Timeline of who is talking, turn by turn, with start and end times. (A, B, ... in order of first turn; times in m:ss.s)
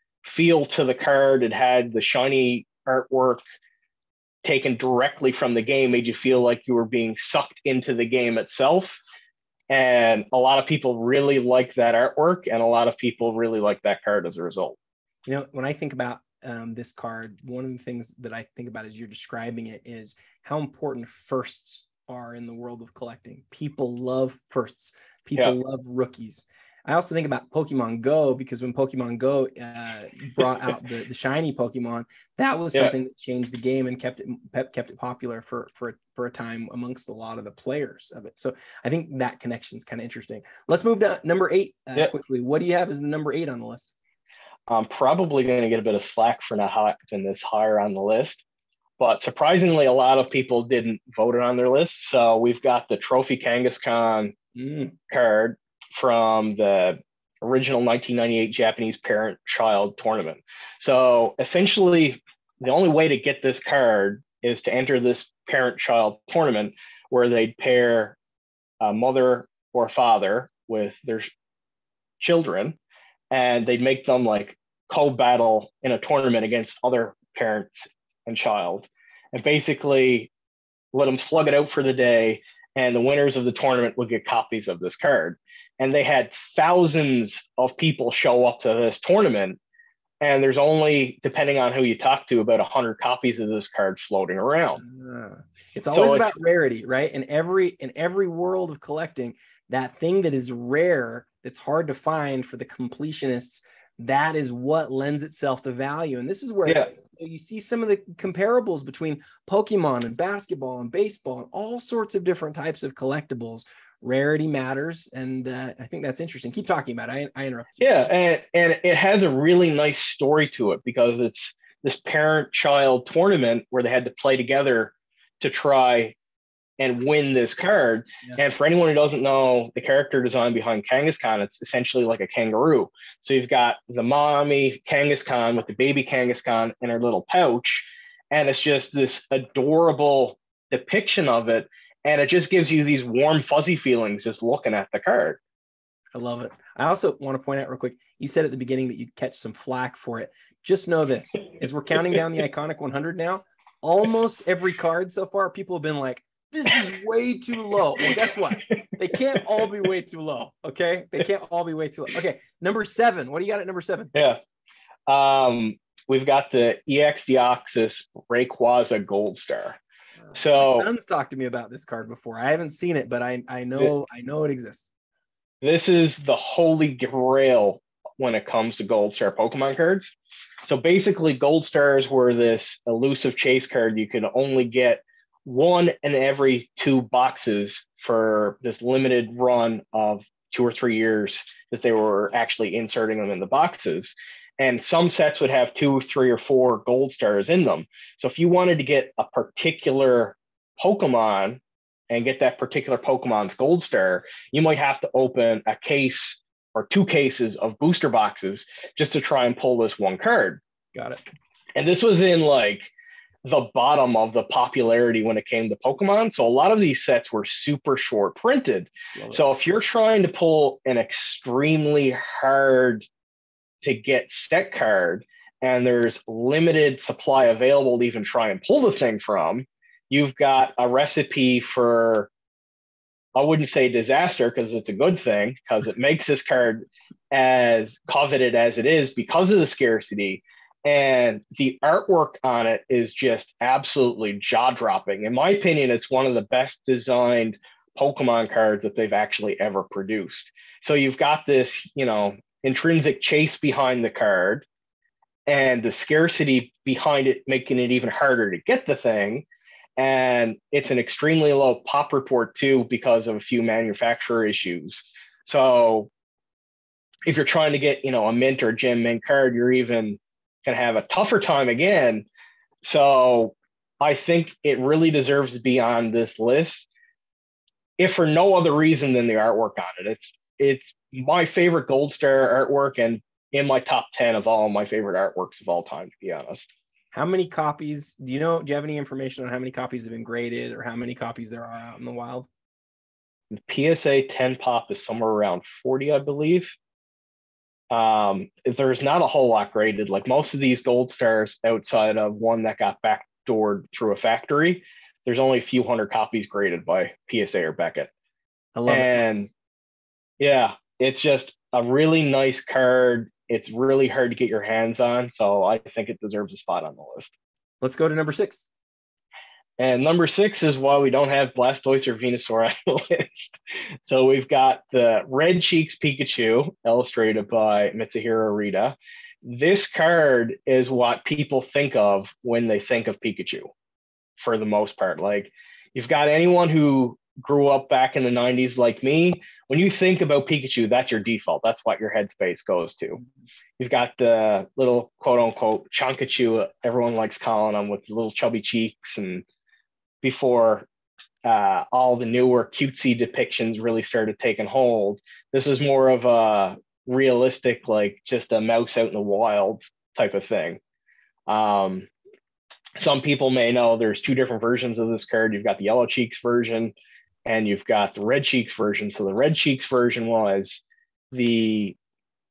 0:00.2-0:03.4 A
0:04.4-0:09.0 A
0:09.7-0:14.8 A
0:15.3-0:44.0 B
0:44.7-0:48.4 A
0:49.0-0:54.4 A
0:54.6-0:54.9 B
0:55.1-1:08.2 A
1:08.8-1:11.3 A
1:12.2-1:12.8 A
1:13.3-1:20.3 A
1:20.9-1:29.6 A
1:30.2-1:34.8 A
1:34.8-1:58.1 B
1:35.9-1:36.4 A
1:57.8-2:06.2 A
2:06.8-2:25.4 A
2:26.1-2:44.1 B
2:45.1-2:49.8 A
2:50.3-2:54.9 B
2:50.4-2:50.9 A
2:55.6-3:30.6 A
3:31.0-3:31.2 B
3:31.8-3:32.9 A
3:33.4-3:43.1 A
3:39.2-3:39.4 B
3:43.8-3:52.3 A
3:53.4-4:14.6 A
4:15.5-4:19.5 A
4:20.0-4:26.1 A
4:27.2-4:32.3 A
4:32.8-4:36.9 A
4:38.0-4:46.7 A
4:47.1-4:52.5 B
4:53.5-4:56.8 A
4:57.9-5:08.1 A
5:08.8-5:09.3 B
5:08.9-5:09.5 A
5:10.4-5:17.3 A
5:17.8-5:18.7 B
5:19.8-5:33.7 A
5:34.4-5:43.2 A
5:43.8-5:49.4 A
5:50.2-5:50.9 A
5:51.4-6:00.8 A
6:01.5-6:02.1 A
6:03.0-6:07.0 A
6:07.5-6:12.0 A